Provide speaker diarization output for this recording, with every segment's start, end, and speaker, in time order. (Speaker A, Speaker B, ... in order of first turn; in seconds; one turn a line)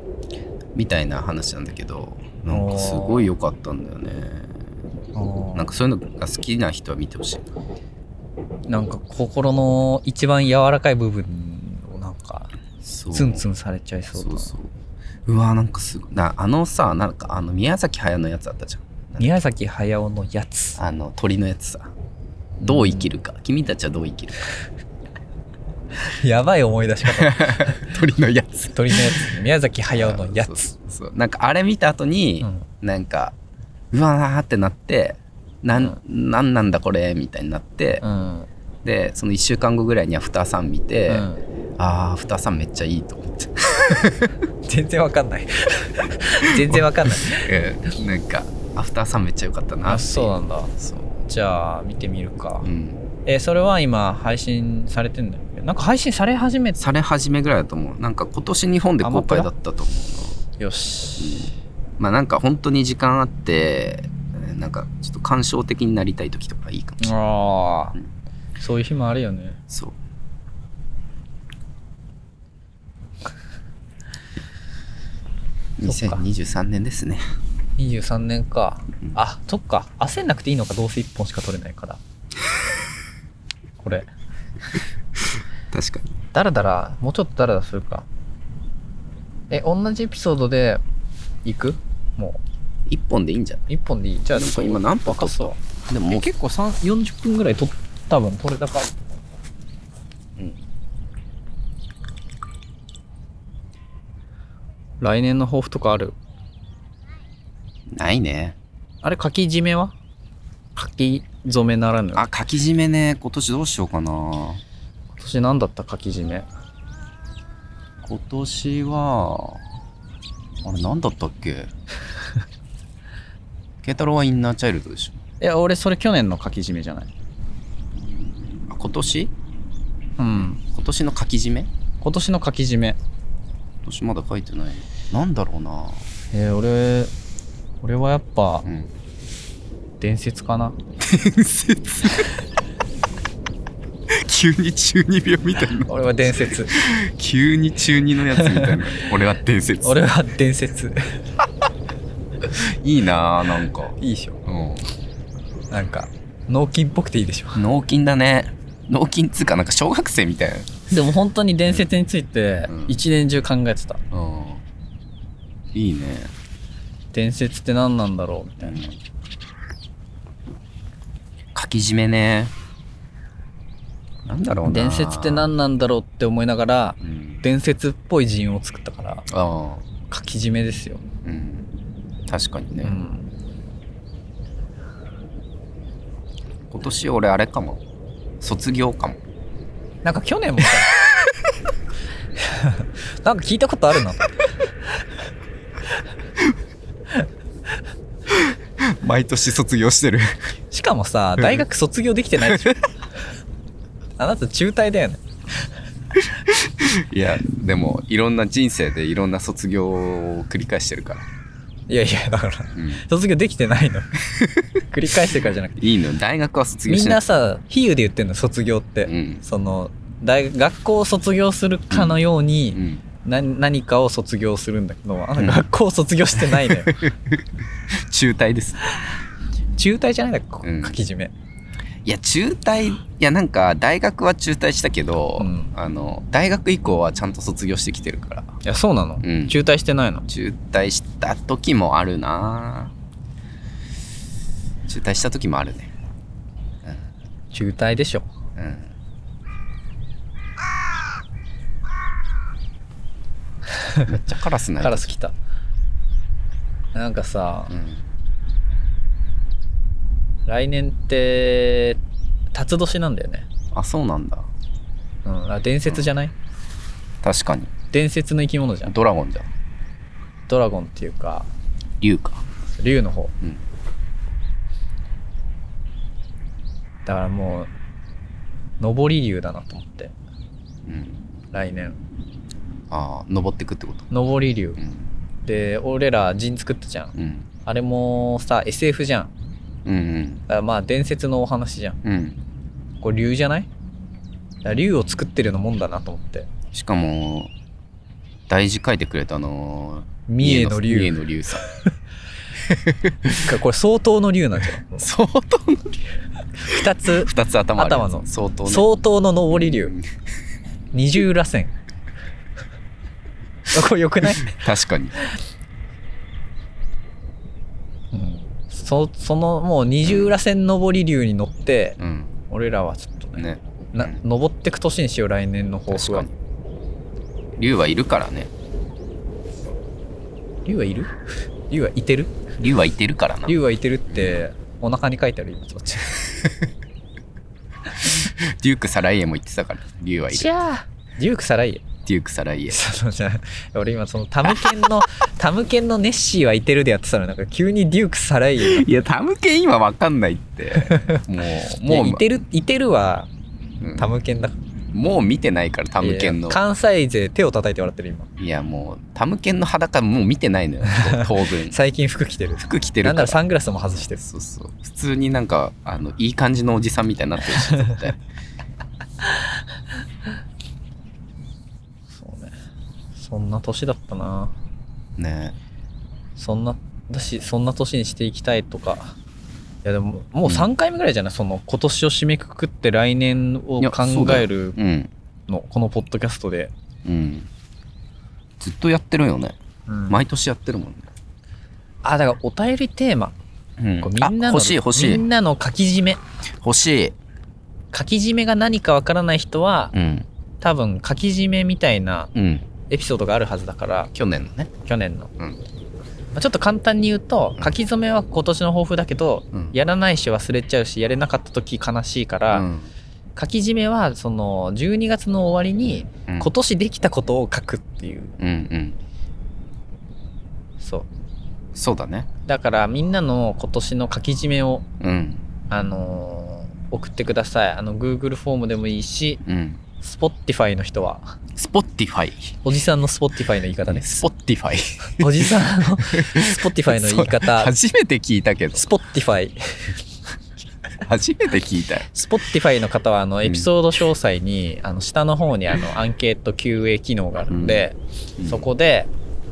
Speaker A: 0.7-4.6
Speaker B: 2.5-3.3
Speaker B: 5.2-5.7
Speaker A: 5.5-7.5
Speaker B: 8.7-12.5
Speaker A: 12.8-13.4
Speaker B: 13.1-14.5
Speaker A: 14.1-14.7
Speaker A: 15.3-19.3
Speaker B: 19.2-20.8
Speaker A: 20.8-21.9
Speaker B: 22.6-23.1
Speaker A: 22.6-24.5
Speaker B: 26.0-27.9
Speaker A: 27.1-29.3
Speaker B: 28.7-30.7
Speaker A: 29.9-33.4
Speaker A: 33.9-38.0
Speaker B: 38.0-38.5
Speaker A: 38.8-44.3
Speaker B: 41.1-41.4
Speaker B: 44.6-47.5
Speaker A: 46.5-51.1
Speaker B: 49.9-50.7
Speaker B: 51.2-52.7
Speaker A: 52.6-53.0
Speaker B: 53.3-56.8
Speaker A: 56.8-60.4
Speaker B: 59.0-59.5
Speaker B: 60.6-61.5
Speaker A: 61.2-67.1
Speaker B: 67.0-68.0
Speaker B: 68.6-69.6
Speaker A: 69.7-70.0
Speaker A: 75.8-77.2
Speaker B: 75.8-76.2
Speaker B: 77.8-82.0
Speaker B: 83.8-84.1
Speaker A: 85.7-86.2
Speaker B: 86.3-88.1
Speaker B: 89.5-90.8
Speaker B: 91.5-92.4
Speaker A: 92.9-93.7
Speaker B: 93.7-98.9
Speaker A: 94.3-96.3
Speaker B: 105.0-106.2
Speaker A: 107.9-108.6
Speaker B: 109.0-109.9
Speaker B: 110.8-112.3
Speaker A: 112.2-114.6
Speaker B: 115.2-116.5
Speaker A: 118.0-119.6
Speaker A: 120.6-121.7
Speaker A: 123.8-125.2
Speaker B: 125.4-127.1
Speaker A: 128.7-129.3
Speaker B: 130.2-130.6
Speaker A: 130.4-131.7
Speaker B: 132.0-133.0
Speaker A: 133.8-136.1
Speaker B: 136.3-137.1
Speaker B: 137.8-138.7
Speaker A: 138.7-138.9
Speaker B: 140.0-140.8
Speaker A: 141.0-142.3
Speaker A: 144.1-150.0
Speaker B: 145.9-146.8
Speaker B: 148.3-148.8
Speaker B: 149.8-151.2
Speaker A: 152.4-154.9
Speaker B: 154.0-154.4
Speaker B: 155.7-157.6
Speaker A: 157.6-160.8
Speaker B: 160.9-164.0
Speaker A: 162.7-163.0
Speaker A: 164.1-164.6
Speaker A: 165.7-166.3
Speaker B: 167.1-168.9
Speaker A: 168.6-169.0
Speaker A: 171.5-172.5
Speaker A: 174.2-175.5
Speaker B: 174.7-179.3
Speaker A: 177.0-177.4
Speaker A: 179.3-179.8
Speaker B: 180.1-181.0
Speaker A: 181.2-181.7
Speaker A: 182.3-183.0
Speaker B: 182.8-183.3
Speaker A: 186.7-187.8
Speaker A: 188.4-189.2
Speaker B: 190.0-190.9
Speaker B: 192.4-194.3
Speaker A: 198.3-200.4
Speaker B: 200.7-202.8
Speaker A: 202.4-202.8
Speaker B: 204.2-205.2
Speaker A: 206.4-211.3
Speaker B: 211.9-214.1
Speaker A: 212.8-213.0
Speaker A: 214.3-214.7
Speaker B: 214.9-215.8
Speaker A: 215.8-217.2
Speaker B: 216.9-227.0
Speaker A: 219.1-219.4
Speaker A: 221.9-222.2
Speaker A: 222.7-223.0
Speaker A: 225.4-225.7
Speaker A: 226.4-228.8
Speaker B: 229.8-231.3
Speaker A: 230.6-231.0
Speaker A: 232.1-238.6
Speaker B: 235.4-235.7
Speaker B: 238.6-240.2
Speaker A: 239.2-239.6
Speaker A: 240.3-242.9
Speaker A: 244.9-245.9
Speaker B: 247.5-248.3
Speaker A: 248.6-248.9
Speaker B: 253.7-254.1
Speaker A: 254.1-255.1
Speaker B: 254.8-255.3
Speaker B: 256.9-257.7
Speaker A: 257.7-258.0
Speaker B: 260.5-262.0
Speaker B: 262.5-263.5
Speaker A: 263.7-264.5
Speaker B: 265.2-266.3
Speaker A: 267.2-267.7
Speaker B: 267.9-268.9
Speaker A: 268.9-269.5
Speaker B: 270.5-271.5
Speaker A: 272.0-272.4
Speaker B: 272.7-273.3
Speaker B: 277.1-277.7
Speaker B: 278.8-280.1
Speaker A: 280.9-281.2
Speaker B: 281.5-282.0
Speaker A: 282.9-284.1
Speaker B: 284.1-284.8
Speaker B: 285.4-287.1
Speaker A: 287.1-287.5
Speaker B: 287.7-289.3
Speaker A: 289.9-290.4
Speaker B: 290.5-292.0
Speaker A: 292.0-292.4
Speaker B: 293.0-293.7
Speaker B: 294.6-296.5
Speaker A: 296.7-297.5
Speaker A: 298.5-301.6
Speaker B: 300.3-301.2
Speaker A: 302.6-303.4
Speaker B: 303.4-305.1
Speaker A: 305.0-306.0
Speaker B: 306.6-309.9
Speaker A: 306.7-308.9
Speaker A: 309.5-310.0
Speaker B: 310.9-311.7
Speaker B: 313.7-314.7
Speaker A: 314.2-315.2
Speaker B: 318.1-326.3
Speaker A: 320.0-320.4
Speaker A: 322.0-322.3
Speaker A: 323.4-324.2
Speaker A: 325.9-326.3
Speaker A: 327.6-328.5
Speaker B: 330.6-331.1
Speaker B: 331.7-332.4
Speaker A: 332.6-333.6
Speaker B: 333.5-336.2
Speaker A: 334.1-334.4
Speaker A: 338.0-340.5
Speaker B: 340.3-341.9
Speaker A: 342.1-342.8
Speaker B: 342.7-348.9
Speaker A: 344.5-344.9
Speaker A: 348.6-352.2
Speaker B: 350.8-351.2
Speaker B: 351.8-353.3
Speaker A: 353.8-354.1
Speaker B: 353.9-354.6
Speaker A: 354.9-356.6
Speaker B: 356.0-358.3
Speaker A: 358.4-361.8
Speaker B: 360.9-364.2
Speaker A: 362.6-368.2
Speaker B: 367.6-368.0
Speaker B: 372.1-372.5
Speaker B: 373.2-374.5
Speaker A: 375.2-375.6
Speaker B: 376.4-379.2
Speaker B: 379.9-384.8
Speaker A: 383.8-385.1
Speaker B: 385.5-386.7
Speaker A: 387.1-387.5
Speaker A: 388.6-389.6
Speaker B: 389.9-390.2
Speaker A: 390.1-391.1
Speaker B: 392.0-393.4
Speaker A: 393.8-395.2
Speaker B: 394.0-396.2
Speaker A: 396.6-397.2
Speaker B: 397.9-399.9
Speaker A: 399.9-400.3
Speaker B: 400.6-402.3
Speaker A: 402.3-402.7
Speaker B: 402.9-404.1
Speaker A: 404.1-404.7
Speaker B: 404.8-405.3
Speaker B: 406.3-412.7
Speaker A: 412.5-412.9
Speaker B: 413.4-418.4
Speaker A: 416.1-416.5
Speaker A: 418.4-419.0
Speaker B: 420.8-421.1
Speaker A: 421.8-422.3
Speaker B: 422.5-424.9
Speaker A: 425.0-425.5
Speaker B: 425.7-429.4
Speaker A: 429.4-429.8
Speaker B: 430.0-431.4
Speaker A: 431.6-432.6
Speaker B: 432.6-434.2
Speaker A: 433.9-438.9
Speaker B: 435.2-437.7
Speaker B: 438.7-439.9
Speaker A: 441.0-442.1
Speaker B: 442.1-449.1
Speaker A: 443.4-443.7
Speaker A: 447.5-447.9
Speaker A: 448.4-448.7